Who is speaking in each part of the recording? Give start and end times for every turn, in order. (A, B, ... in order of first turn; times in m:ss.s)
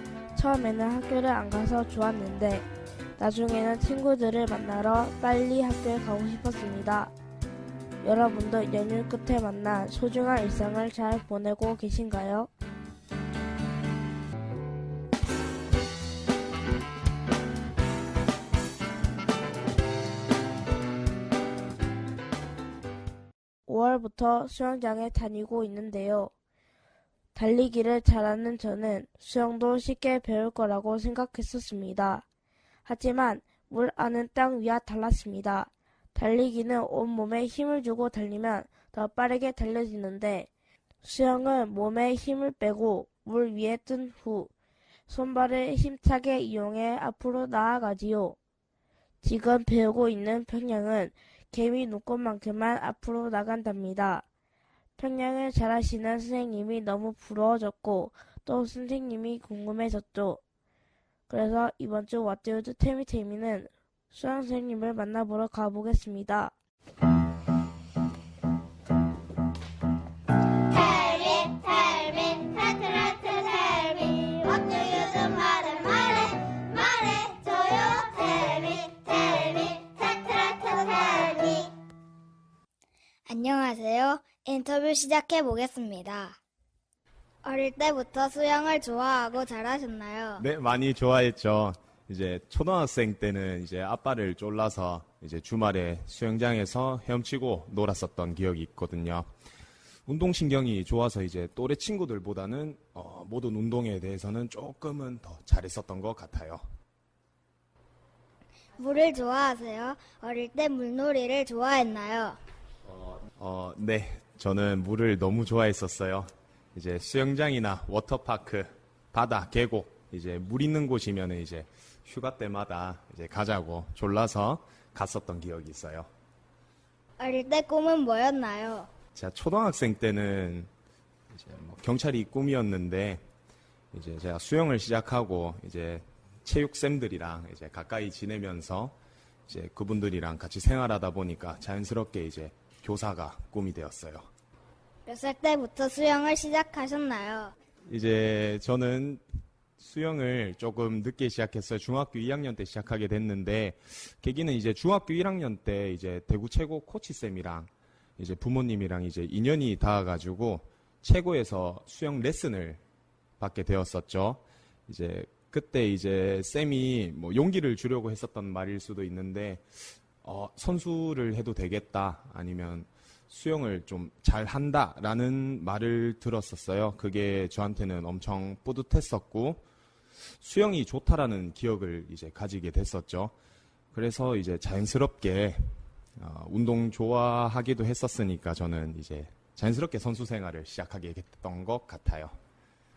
0:00.3-0:02.7 A
0:03.2-0:07.1 A
0:08.0-0:12.5 A
0:23.7-0:26.3 A
0:27.3-0:32.2 A
0:32.8-0:40.5 A
0:41.0-0:44.5 A
0:45.1-0:48.4 A
0:49.2-0:54.2 A
0:55.0-1:00.4 A
1:01.3-1:06.5 A
1:10.7-1:21.7 B
1:23.3-1:26.4 B
1:27.4-1:30.4 B
1:30.4-1:39.3 C
1:40.1-1:46.6 C
1:48.8-1:52.4 B
1:52.9-2:06.1 C
2:07.2-2:08.9 B
2:09.2-2:10.7 C
2:11.3-2:13.2 C
2:13.9-2:19.0 C
2:19.5-2:24.3 C
2:25.1-2:27.5 B
2:27.9-2:29.2 C
2:29.8-2:42.8 C
2:43.4-2:59.6 C
3:00.4-3:03.3 C
3:03.9-3:12.4 C